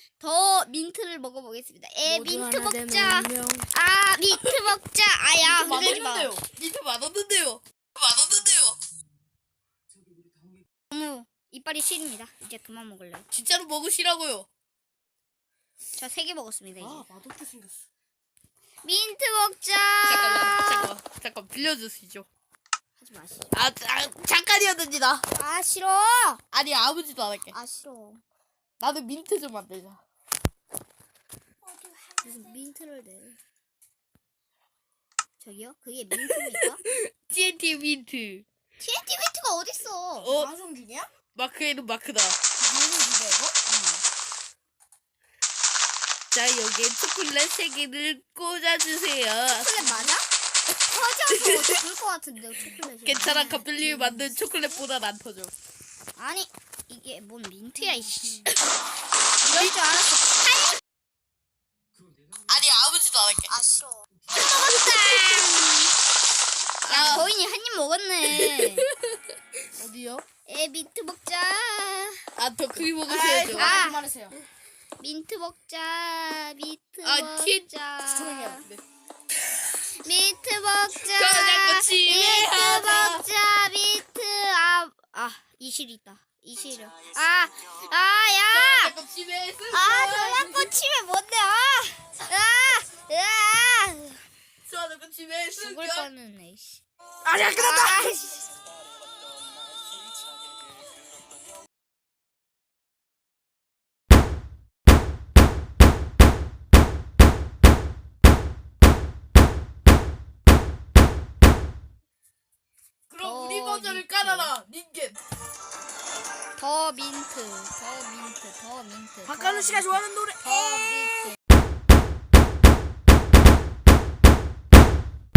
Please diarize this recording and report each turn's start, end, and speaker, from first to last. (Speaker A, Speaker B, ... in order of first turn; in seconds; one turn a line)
Speaker A: 0.2-6.3
Speaker B: 2.0-3.7
Speaker B: 5.5-6.4
Speaker C: 5.5-8.8
Speaker A: 10.9-13.3
Speaker C: 13.3-14.5
Speaker A: 16.0-17.1
Speaker B: 16.8-17.8
Speaker A: 18.8-20.9
Speaker C: 20.1-22.3
Speaker A: 23.0-23.6
Speaker C: 23.5-25.3
Speaker A: 25.3-26.4
Speaker C: 26.5-27.6
Speaker A: 27.5-28.2
Speaker C: 28.8-30.0
Speaker B: 31.6-32.3
Speaker A: 32.2-33.4
Speaker A: 35.4-36.8
Speaker C: 36.2-38.5
Speaker A: 38.8-40.3
Speaker C: 40.2-40.5
Speaker B: 40.3-41.1
Speaker C: 41.3-42.4
Speaker B: 42.6-43.6
Speaker A: 43.7-44.0
Speaker C: 46.3-50.0
Speaker A: 49.5-50.2
Speaker A: 50.9-54.3
Speaker C: 51.3-51.8
Speaker C: 53.0-55.5
Speaker A: 56.2-58.5
Speaker B: 58.0-58.3
Speaker A: 59.5-60.8
Speaker C: 59.5-60.1
Speaker C: 62.5-63.6
Speaker A: 63.5-65.9
Speaker C: 64.4-65.6
Speaker A: 66.8-68.9
Speaker C: 66.8-67.3
Speaker C: 68.3-68.9
Speaker B: 69.8-70.2
Speaker A: 70.5-72.2
Speaker C: 72.4-73.8
Speaker B: 73.0-74.4
Speaker A: 73.5-74.0
Speaker A: 75.0-78.7
Speaker C: 77.0-77.7
Speaker B: 78.0-78.8
Speaker A: 80.0-89.0
Speaker C: 81.1-83.2
Speaker C: 88.5-90.7
Speaker A: 89.7-94.2
Speaker C: 94.7-96.1
Speaker A: 95.6-96.8
Speaker B: 97.2-98.2
Speaker A: 97.5-98.5
Speaker C: 113.1-115.2
Speaker A: 113.2-114.5
Speaker A: 116.6-121.4
Speaker B: 119.2-120.4